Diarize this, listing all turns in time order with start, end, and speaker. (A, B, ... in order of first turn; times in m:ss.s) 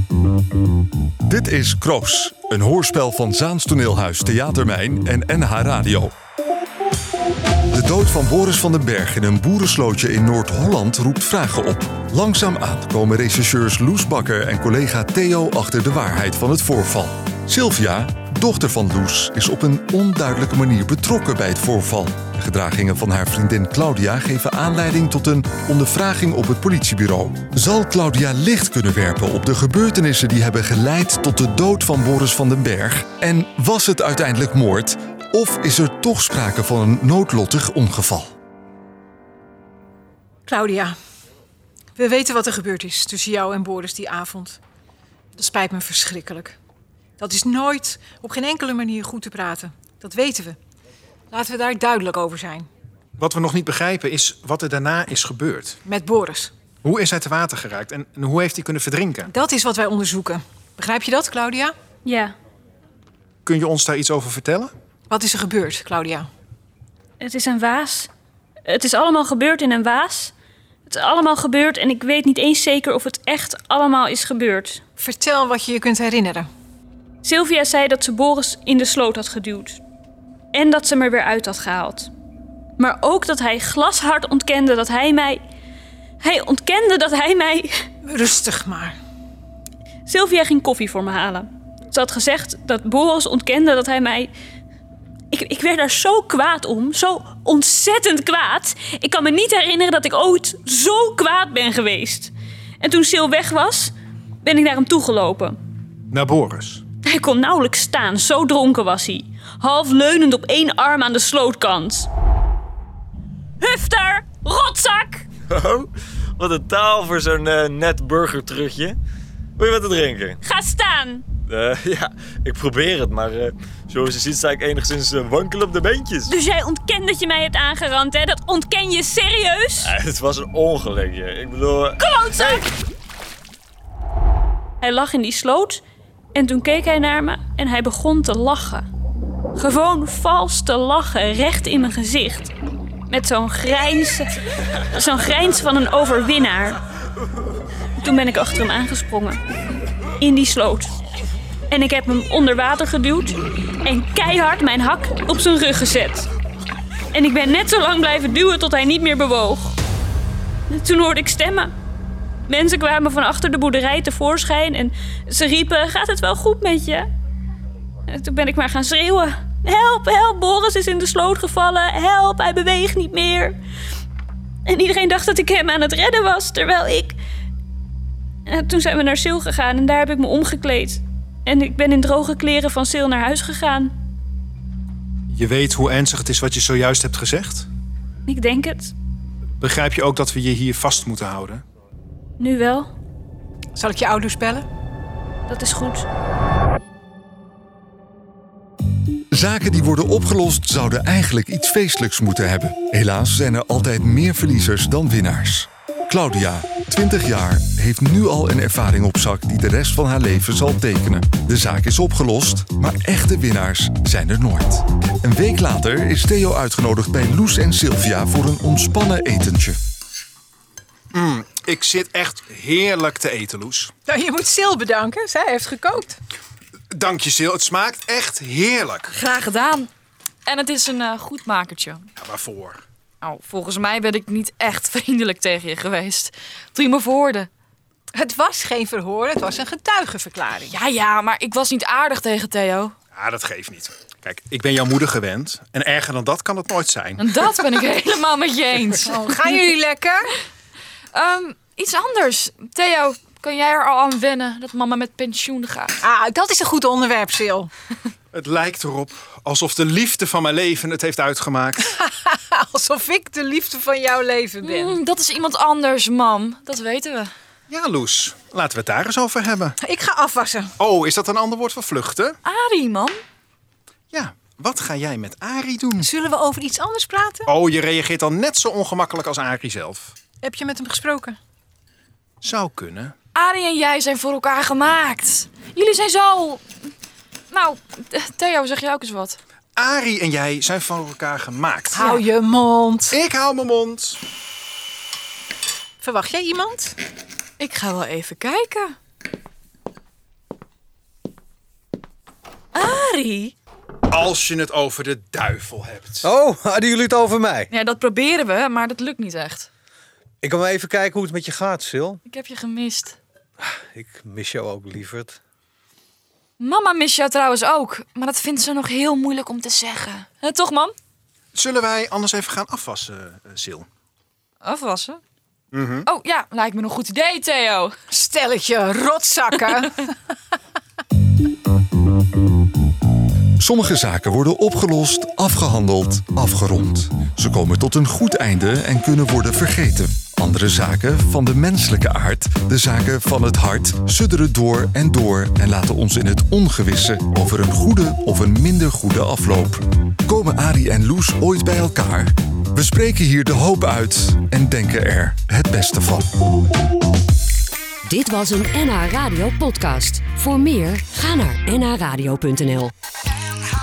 0:01.3-0:06.1 A
0:07.7-0:38.3 A
0:40.5-0:41.0 B
0:42.0-0:44.6 B
0:45.4-0:46.6 B
0:47.2-0:50.6 B
0:51.3-0:52.7 B
0:53.2-0:55.8 C
0:55.8-0:56.5 B
0:56.8-0:59.3 C
0:59.3-1:01.7 B
1:02.0-1:02.3 D
1:03.5-1:04.7 C
1:05.1-1:06.3 B
1:07.2-1:08.1 D
1:08.7-1:10.3 D
1:10.9-1:14.8 D
1:15.0-1:16.5 B
1:17.2-1:19.8 D
1:20.5-1:22.1 D
1:22.8-1:25.4 D
1:26.2-1:27.7 D
1:28.0-1:29.0 B
1:30.1-1:34.3 D
1:35.3-1:43.9 D
1:44.4-1:45.6 D
1:46.1-1:46.8 C
1:47.1-1:52.1 D
1:53.6-1:55.3 D
1:55.5-1:59.0 E
1:59.6-2:00.4 E
2:00.4-2:01.3 D
2:01.5-2:06.3 E
2:06.3-2:09.9 D
2:09.8-2:12.6 E
2:12.0-2:12.6 D
2:14.8-2:15.8 D
2:16.4-2:18.9 D
2:19.6-2:22.5 D
2:23.1-2:24.3 D
2:24.9-2:26.8 D
2:28.0-2:29.4 D
2:30.2-2:30.9 D
2:31.7-2:36.3 D
2:37.1-2:39.7 D
2:40.7-2:41.7 D
2:42.5-2:47.1 D
2:48.1-2:53.6 D
2:54.7-2:57.2 D
2:58.5-3:03.9 D
3:05.3-3:07.7 C
3:08.3-3:08.9 D
3:09.6-3:11.6 C
3:12.4-3:12.9 D
3:13.8-3:14.6 B
3:15.5-3:16.1 D
3:19.3-3:39.8 A
3:41.1-3:43.9 C
3:44.1-3:46.2 B
3:46.9-3:49.1 C
3:49.1-3:49.9 F
3:50.5-3:52.1 F
3:52.2-3:52.8 C
3:53.2-3:57.5 F
3:58.1-4:00.8 B
4:00.7-4:02.9 F
4:03.1-4:07.2 C
4:07.2-4:09.6 F
4:09.0-4:10.3 B
4:11.1-4:16.0 F
4:16.0-4:17.7 B
4:18.3-4:21.9 C
4:21.9-4:25.0 B
4:24.6-4:27.3 F
4:27.7-4:29.8 C
4:29.8-4:30.7 B
4:30.8-4:32.4 C
4:32.4-4:33.2 F
4:34.1-4:36.1 C
4:36.0-4:37.5 B
4:37.5-4:40.2 C
4:40.4-4:41.4 B
4:42.4-4:43.1 C
4:43.4-4:46.6 F
4:47.5-4:49.4 F
4:49.8-4:52.0 C
4:51.9-4:53.2 B
4:53.1-4:54.2 C
4:56.0-4:57.0 B
4:57.6-4:59.0 F
5:02.8-5:03.5 F
5:04.1-5:06.3 C
5:06.2-5:07.7 G
5:07.7-5:09.7 F
5:10.4-5:12.2 G
5:12.3-5:13.2 F
5:13.6-5:15.4 G
5:16.6-5:20.9 F
5:21.5-5:23.9 C
5:24.6-5:25.2 F
5:25.7-5:26.1 C
5:26.1-5:27.9 F
5:28.1-5:30.1 B
5:33.6-5:56.3 A
5:58.0-6:02.9 H